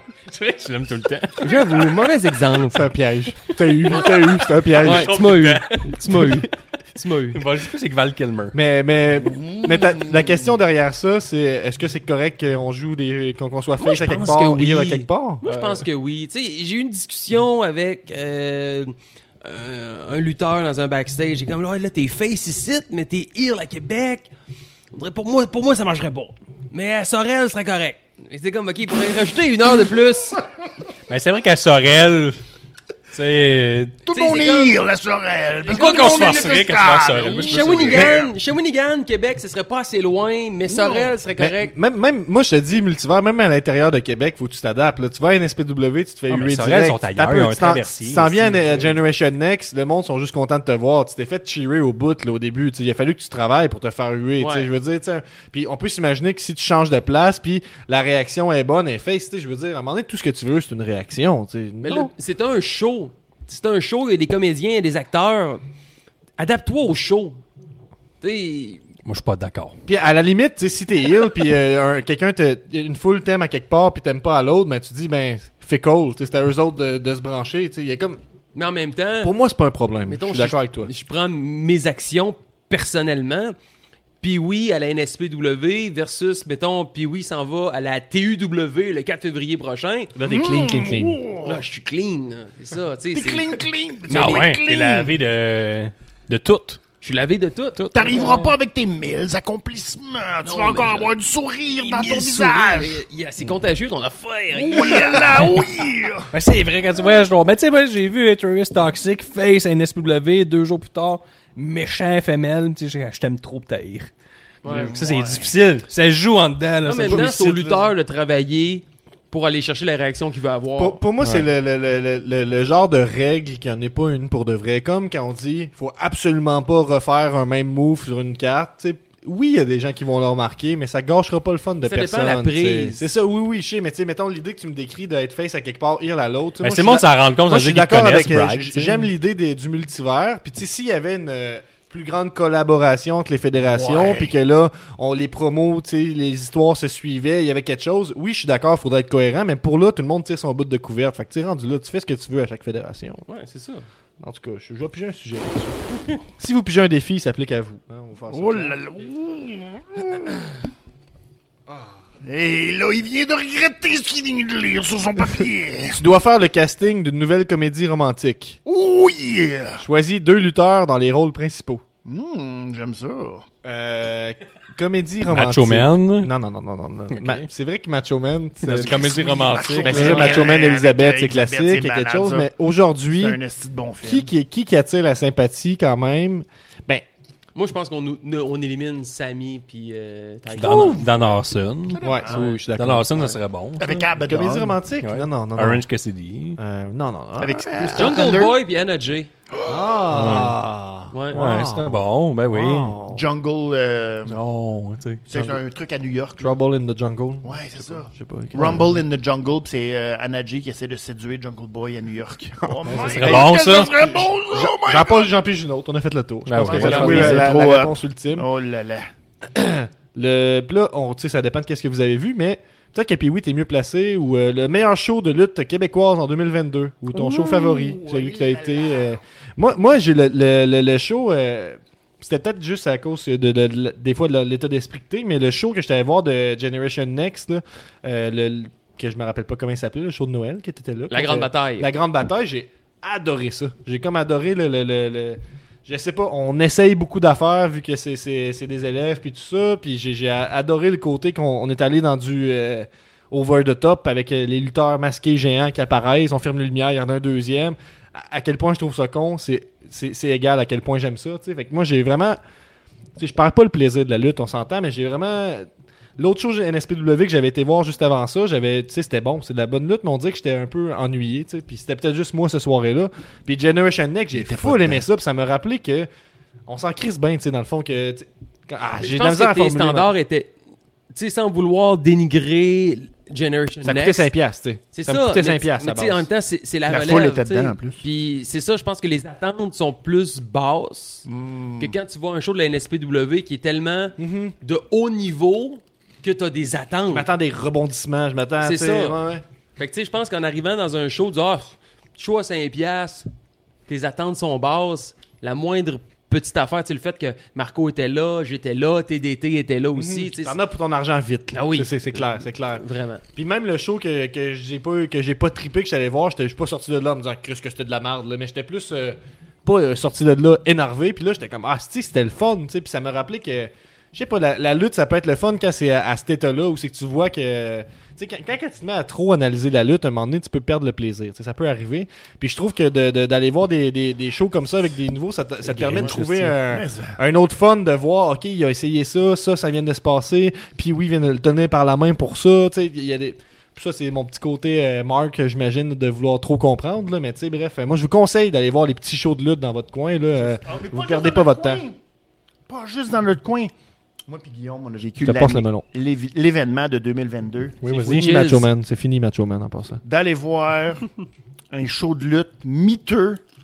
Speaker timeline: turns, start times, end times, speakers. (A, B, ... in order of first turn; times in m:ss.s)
0:00.3-0:01.7 A
0:01.4-0:02.9 B
0:02.7-0:05.1 C
0:04.7-0:06.5 A
0:04.8-0:07.4 B
0:07.3-0:08.6 A
0:08.5-0:15.4 C
0:09.2-0:10.6 D
0:13.8-0:24.3 B
0:15.4-0:15.8 A
0:24.9-0:30.4 B
0:31.1-0:32.4 A
0:33.1-0:34.0 A
0:34.0-0:38.3 D
0:34.1-0:34.8 B
0:35.7-0:38.2 A
0:35.7-0:36.3 B
0:37.2-0:41.7 B
0:40.7-0:41.2 D
0:41.4-1:02.1 C
0:46.3-0:48.9 A
0:54.4-0:54.7 B
1:01.8-1:05.6 B
1:06.4-1:07.4 B
1:08.2-1:08.8 B
1:09.0-1:09.8 A
1:09.9-1:18.2 C
1:18.6-1:19.3 B
1:19.2-1:20.9 C
1:20.0-1:23.6 B
1:24.2-1:30.1 B
1:30.2-1:31.1 A
1:30.2-1:31.2 C
1:30.3-1:31.6 D
1:31.4-1:34.5 B
1:33.1-1:35.1 D
1:34.1-1:36.8 A
1:37.0-1:38.2 B
1:37.8-1:38.5 A
1:37.9-1:43.0 D
1:40.4-1:41.1 B
1:41.8-1:45.6 B
1:44.5-1:46.3 D
1:46.3-1:54.1 A
1:54.6-1:54.9 B
1:54.6-1:55.5 D
1:54.7-1:57.4 A
1:56.8-2:01.0 B
1:57.0-1:57.9 C
2:00.8-2:33.2 C
2:01.2-2:01.5 A
2:11.9-2:13.1 B
2:16.6-2:19.0 A
2:23.6-2:24.3 D
2:33.3-2:33.8 B
2:34.2-2:38.8 C
2:38.3-2:40.4 D
2:41.7-2:42.1 C
2:42.2-2:46.0 D
2:46.0-2:48.6 C
2:48.7-2:49.8 D
2:49.8-2:51.8 C
2:52.0-2:53.5 D
2:53.6-2:59.0 C
2:55.3-2:56.3 A
2:57.1-2:57.5 A
2:58.6-3:00.5 A
2:58.7-3:02.5 D
2:59.8-3:03.4 C
3:03.1-3:04.3 D
3:04.0-3:07.1 C
3:07.6-3:11.4 B
3:10.5-3:14.1 A
3:10.6-3:11.0 C
3:11.9-3:12.6 D
3:12.0-3:13.4 C
3:13.8-3:14.8 D
3:14.2-3:15.8 C
3:15.0-3:16.6 A
3:16.6-3:18.5 C
3:17.4-3:18.6 D
3:17.9-3:19.3 B
3:19.5-3:20.0 D
3:19.7-3:23.2 C
3:20.1-3:20.6 A
3:21.1-3:21.4 B
3:21.3-3:23.0 A
3:23.1-3:24.4 D
3:24.3-3:25.2 A
3:25.3-3:26.5 D
3:25.3-3:25.6 C
3:26.4-3:29.0 C
3:27.4-3:35.3 D
3:32.6-3:38.5 C
3:32.9-3:34.0 A
3:36.5-3:37.5 A
3:36.6-3:39.1 D
3:39.5-4:22.4 C
3:47.1-3:49.2 D
4:01.1-4:01.9 B
4:23.2-4:36.1 C
4:34.3-4:35.0 D
4:36.7-4:40.1 C
4:39.0-4:40.5 B
4:41.1-4:44.3 B
4:43.8-4:46.3 C
4:44.9-4:51.3 B
4:46.9-4:48.0 D
4:51.3-4:52.0 D
4:51.8-4:57.3 B
4:54.2-4:54.6 C
4:57.1-4:59.4 C
4:58.6-4:59.2 B
4:59.8-5:03.3 B
5:03.9-5:10.6 B
5:10.0-5:51.8 C
5:11.5-5:13.2 B
5:35.6-5:36.6 B
5:36.7-5:37.2 D
5:50.5-5:52.0 D
5:52.7-5:53.7 D
5:54.3-5:57.8 D
5:55.2-5:55.9 C
5:57.8-5:58.2 A
5:57.9-5:58.7 B
5:57.9-6:00.0 C
6:00.0-6:01.1 D
6:01.7-6:03.4 D